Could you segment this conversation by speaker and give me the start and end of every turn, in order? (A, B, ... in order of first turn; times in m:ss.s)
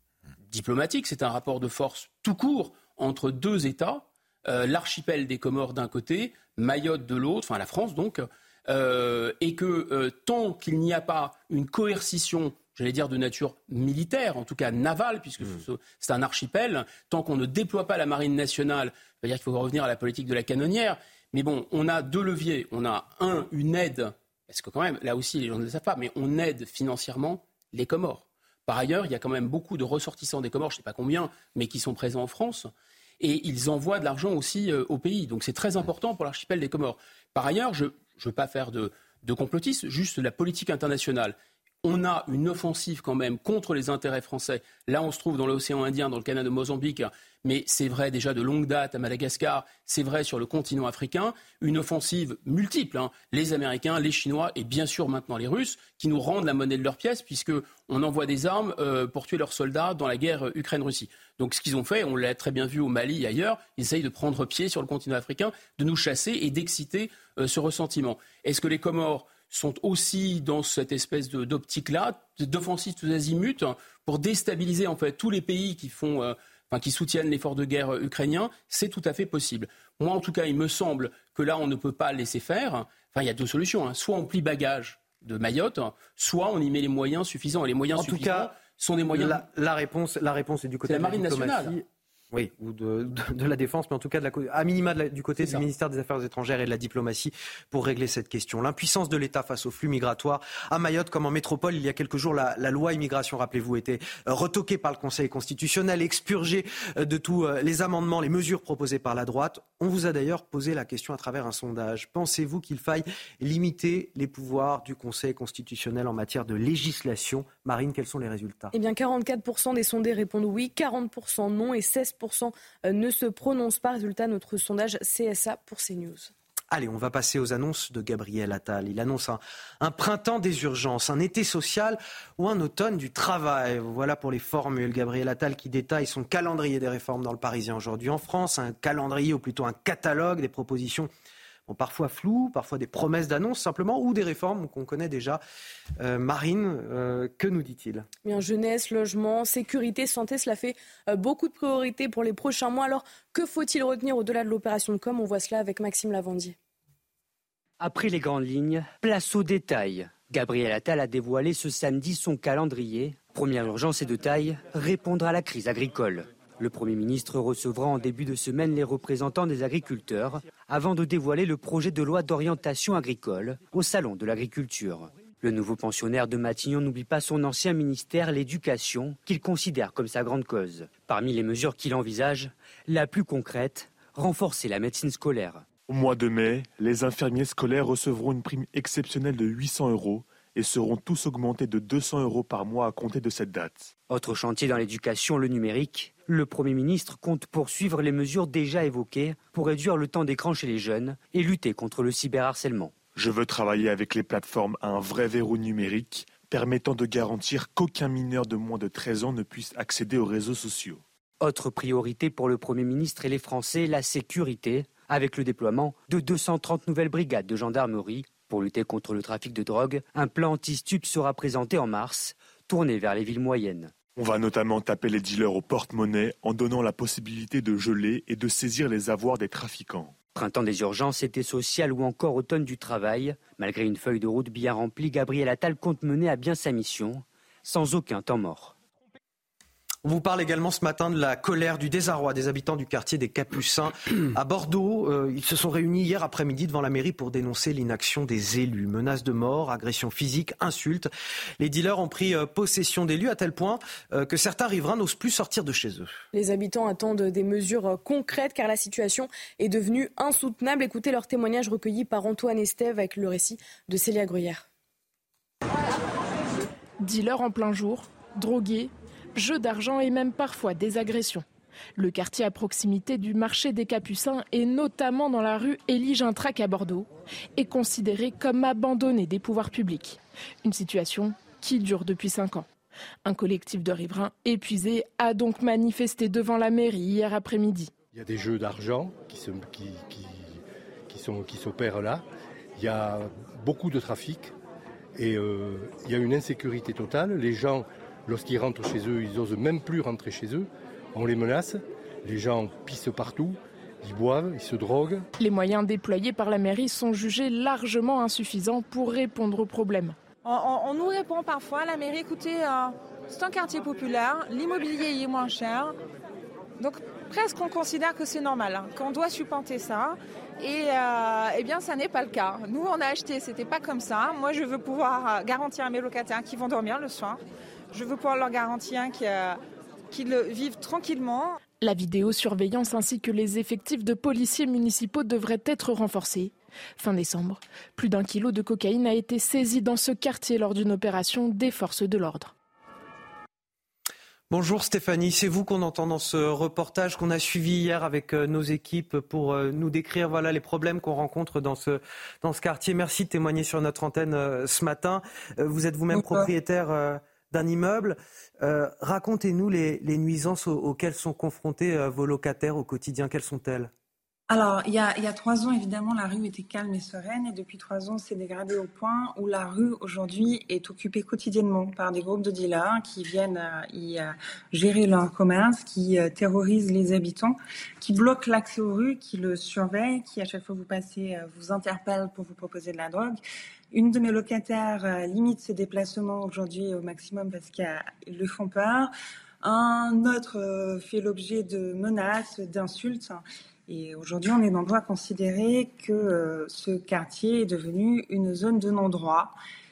0:00.5-1:29.4 A
1:27.9-1:28.5 B
1:29.1-1:58.7 B
1:30.9-1:31.7 A
1:58.7-2:06.3 C
2:06.7-2:21.1 B
2:21.7-2:25.4 B
2:26.0-2:28.0 B
2:28.2-2:36.5 C
2:37.8-3:05.6 D
3:05.9-3:13.9 E
3:14.1-3:22.9 D
3:23.2-3:31.0 E
3:31.4-3:43.9 D
3:44.2-3:50.1 E
3:50.3-3:58.7 D
4:00.0-4:16.2 B
4:16.3-4:24.6 C
4:27.0-4:31.4 F
4:32.0-4:42.7 F
4:43.2-4:47.9 F
4:48.1-4:52.2 G
4:52.8-4:54.5 G
4:55.1-5:05.3 G
5:05.4-5:10.2 F
5:10.4-5:16.0 H
5:16.8-5:29.6 H
5:30.1-5:31.6 H
5:31.8-5:42.5 F
5:44.5-6:03.9 B
5:56.1-5:56.5 I
6:04.5-6:23.4 I
6:23.9-6:39.5 I